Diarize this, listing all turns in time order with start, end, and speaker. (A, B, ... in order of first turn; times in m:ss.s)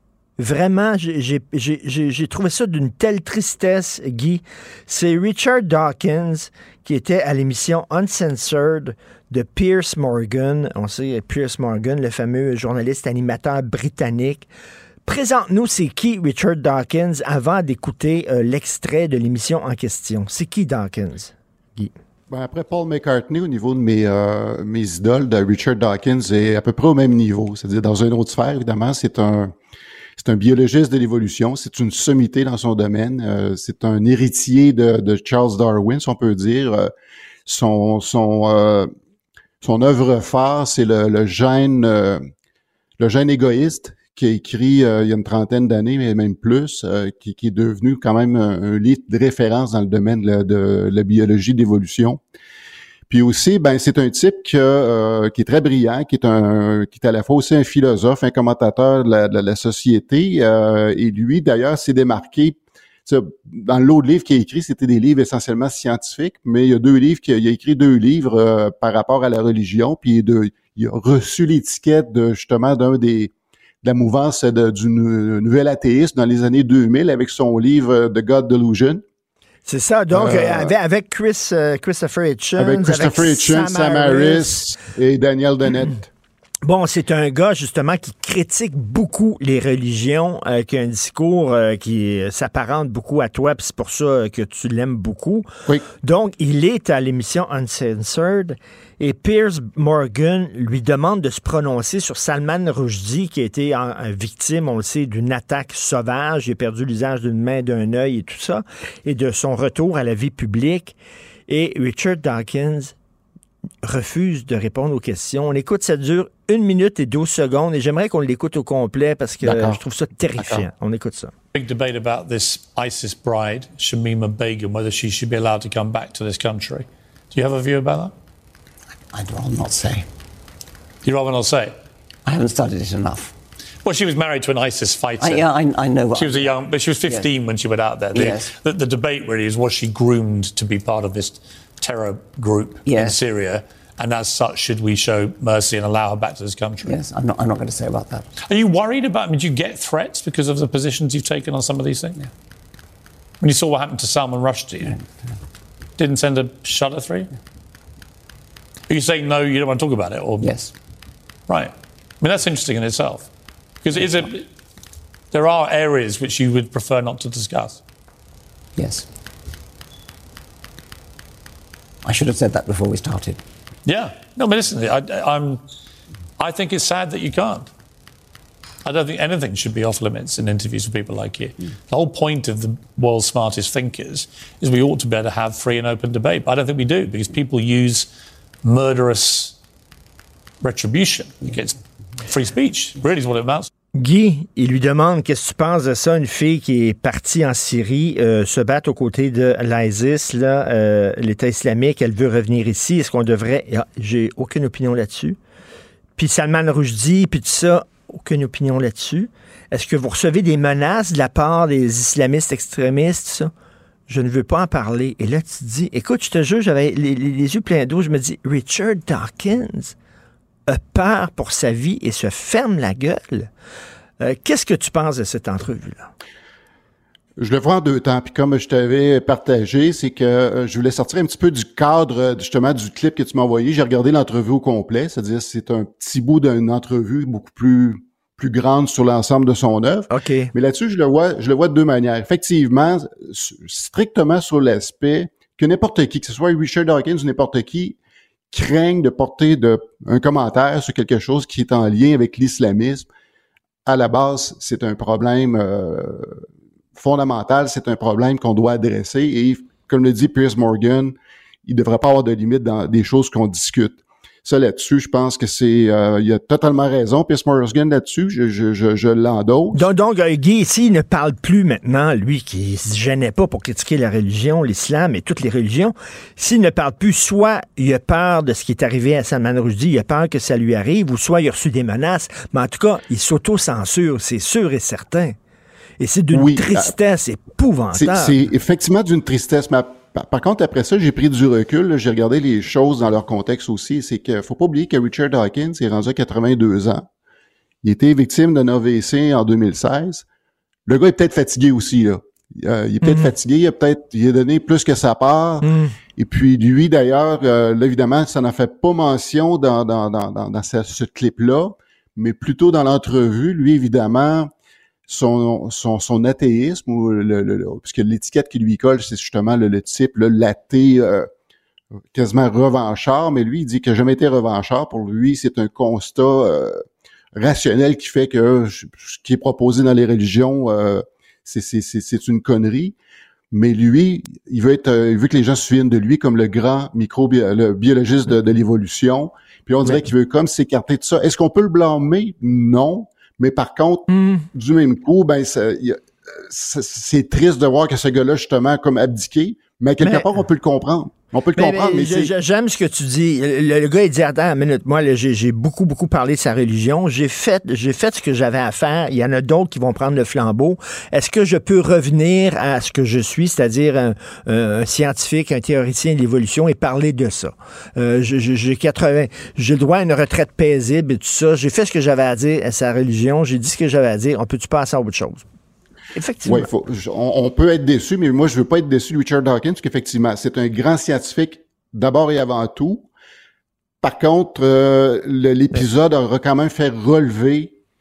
0:00.4-0:14.5 A
0:15.0-0:21.9 A
0:22.3-0:29.5 B
0:30.2-0:36.9 B
0:37.4-0:38.9 B
0:39.6-0:42.2 B
0:43.0-0:52.2 B
0:53.1-1:19.0 B
1:19.6-1:24.6 A
1:20.1-1:20.7 B
1:22.6-1:26.1 B
1:26.6-1:35.5 A
1:36.0-1:51.0 A
1:51.5-1:52.9 A
1:53.8-2:01.3 A
1:59.4-1:59.8 B
2:01.5-2:08.1 C
2:09.1-2:10.1 D
2:11.0-2:11.8 C
2:12.2-2:13.3 D
2:13.8-2:15.5 C
2:15.2-2:17.3 D
2:16.1-2:27.0 C
2:18.1-2:18.5 D
2:22.8-2:23.2 D
2:26.8-2:28.3 D
2:28.4-2:32.3 C
2:33.4-2:35.0 C
2:34.8-2:35.3 D
2:36.0-2:37.3 C
2:38.9-2:40.7 C
2:40.4-2:40.7 D
2:41.5-2:44.5 C
2:44.0-2:44.2 D
2:45.3-2:47.8 C
2:48.8-2:49.1 D
2:52.0-2:53.4 D
2:53.8-2:55.6 C
2:56.4-2:57.7 C
2:58.8-3:08.1 C
3:08.6-3:09.6 C
3:10.6-3:13.7 C
3:13.9-3:25.4 A
3:26.2-3:33.5 A
3:34.1-3:39.9 A
3:40.7-3:43.5 A
3:44.2-3:46.1 A
3:47.4-4:08.0 B
4:00.1-4:00.5 A
4:08.5-4:13.1 B
4:13.8-4:16.4 B
4:16.9-4:29.8 B
4:29.7-4:45.4 A
4:46.0-4:48.3 A
4:46.3-4:46.9 B
4:47.9-4:57.1 B
4:57.8-5:00.2 B
5:00.9-5:14.5 B
5:03.0-5:03.3 A
5:05.6-5:05.9 A
5:15.1-5:21.3 B
5:22.1-5:26.8 B
5:27.3-5:32.9 B
5:33.5-5:52.3 B
5:44.1-5:44.4 A
5:51.6-6:15.4 A
6:16.2-6:16.7 A
6:16.4-6:23.1 B
6:24.0-6:27.7 B